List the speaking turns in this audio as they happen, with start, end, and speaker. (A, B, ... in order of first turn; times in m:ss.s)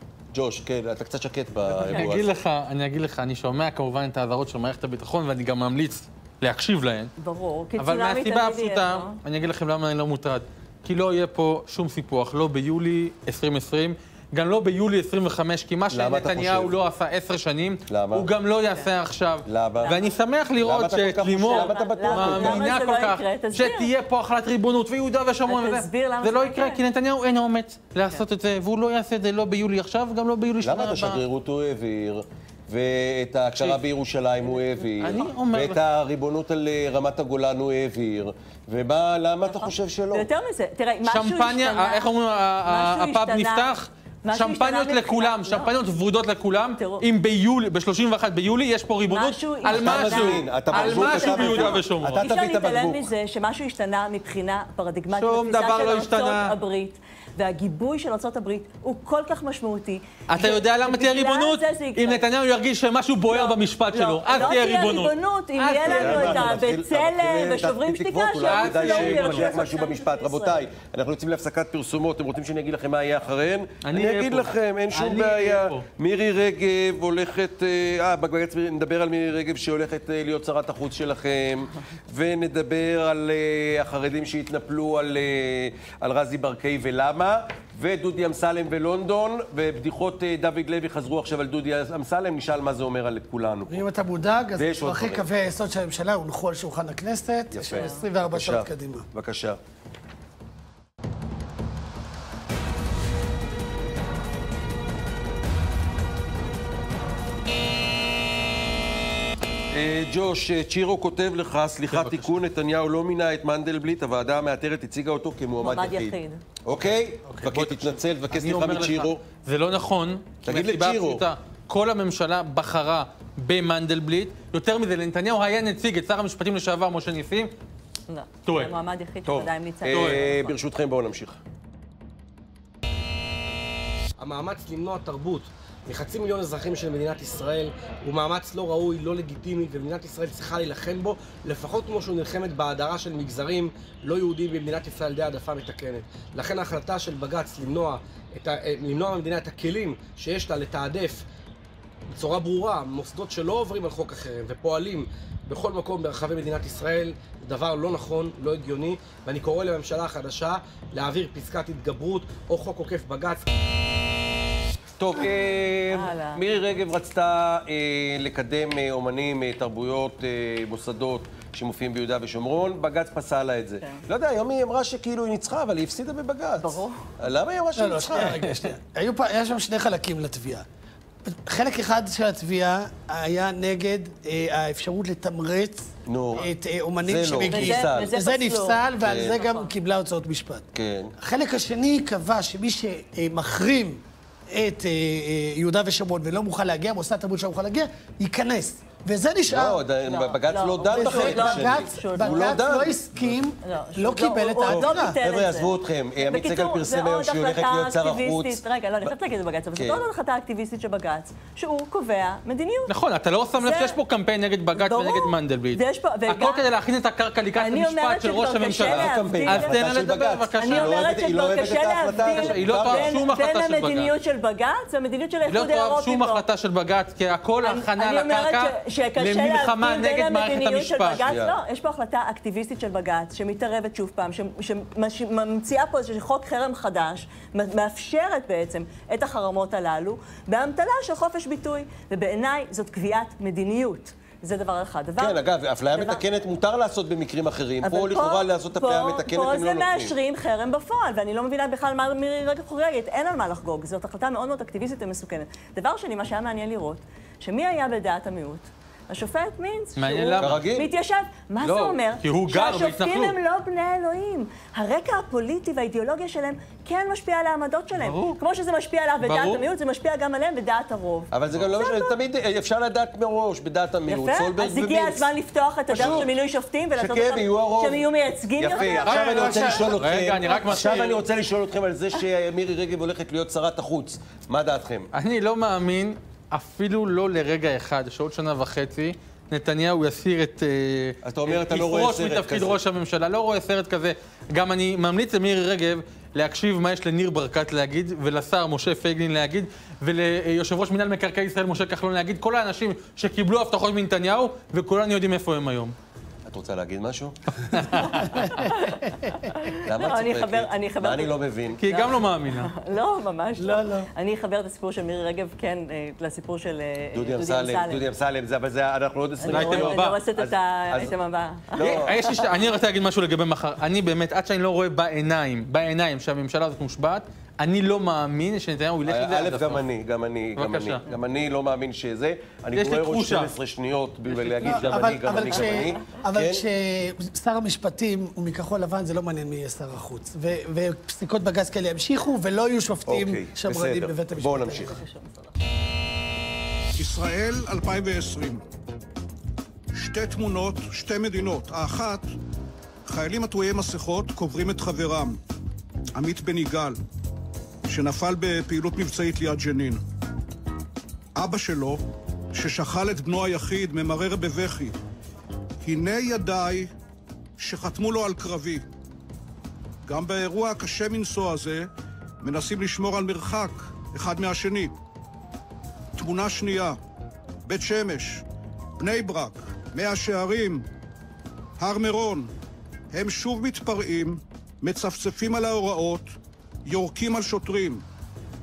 0:00.3-0:02.3 A
0:01.7-0:07.1 B
0:07.2-0:09.2 C
0:07.8-0:31.2 B
0:15.9-0:16.7 A
0:17.9-0:18.2 A
0:19.5-0:20.0 A
0:19.8-0:20.1 C
0:20.6-0:22.7 A
0:21.4-0:23.9 C
0:25.5-0:26.8 C
0:30.6-0:40.3 A
0:35.0-0:35.8 B
0:39.5-0:42.1 C
0:41.1-0:52.2 B
0:42.6-0:43.7 C
0:44.2-0:45.7 C
0:46.8-0:47.0 C
0:49.0-1:02.2 C
0:49.7-0:53.1 A
0:55.2-0:56.5 B
1:00.3-1:06.6 B
1:03.3-1:10.6 C
1:05.8-1:33.8 A
1:08.4-1:09.7 B
1:13.8-1:15.8 B
1:33.7-1:39.1 D
1:34.6-1:35.2 A
1:37.5-1:39.6 A
1:37.7-1:38.0 C
1:49.7-1:59.2 A
1:51.9-1:52.3 B
1:55.6-1:56.4 C
1:57.4-2:07.5 B
2:00.4-2:01.2 A
2:08.1-2:10.5 C
2:08.4-2:08.7 B
2:09.2-2:11.4 A
2:09.9-2:10.2 B
2:14.2-2:31.2 E
2:32.1-2:43.5 E
2:45.0-2:58.6 A
2:45.9-2:46.4 C
2:56.6-2:57.0 C
2:57.8-3:00.6 D
3:01.2-3:10.7 D
3:06.1-3:06.5 A
3:07.0-3:08.1 A
3:07.5-3:09.7 C
3:09.0-3:09.4 A
3:10.7-3:11.1 A
3:11.2-3:19.8 D
3:19.5-3:23.1 A
3:20.0-3:22.6 C
3:20.9-3:25.2 D
3:23.6-3:32.9 C
3:24.6-3:29.1 A
3:29.7-3:30.0 A
3:32.9-3:41.4 B
3:33.6-3:34.0 C
3:34.8-3:36.6 C
3:37.6-3:39.8 C
3:38.8-3:43.2 A
3:40.6-3:46.4 C
3:42.2-3:44.1 B
3:45.5-3:51.2 B
3:47.6-4:05.4 C
3:51.2-3:51.6 A
4:05.2-4:10.1 A
4:05.9-4:06.2 C
4:07.8-4:32.1 C
4:20.0-4:20.6 B
4:20.4-4:20.9 A
4:21.6-4:23.4 B
4:28.0-4:28.4 B
4:29.2-4:29.6 B
4:31.3-4:35.3 A
4:34.1-4:39.2 C
4:35.9-4:36.3 A
4:35.9-4:36.2 B
4:37.0-4:38.1 A
4:38.6-4:45.1 A
4:39.0-4:40.0 D
4:39.0-4:41.2 B
4:45.1-5:05.9 B
4:51.2-4:52.8 A
5:06.5-5:08.1 A
5:07.7-5:08.2 B
5:08.4-5:18.0 C
5:09.8-5:11.8 A
5:11.8-5:12.7 B
5:13.6-5:14.1 D
5:17.1-5:21.1 A
5:19.4-5:22.5 C
5:19.5-5:20.2 B
5:21.7-5:22.1 A
5:21.8-5:29.8 B
5:29.0-5:36.6 A
5:30.6-5:31.0 B
5:32.7-5:33.5 B
5:34.3-5:35.7 B
5:34.6-5:45.0 D
5:43.1-5:44.9 A
5:44.9-5:45.5 C
5:47.0-5:48.6 F
5:49.9-5:52.3 F
5:53.0-5:55.4 F
5:56.2-5:57.0 F
5:57.8-6:00.0 F
6:01.4-6:02.0 F
6:02.5-6:05.0 F
6:05.8-6:06.9 F
6:07.6-6:08.8 F
6:10.0-6:11.9 F
6:12.4-6:14.9 F
6:16.2-6:17.0 F
6:17.6-6:18.4 F
6:19.0-6:20.8 F
6:21.8-6:22.5 F
6:23.1-6:26.3 F
6:26.8-6:28.0 F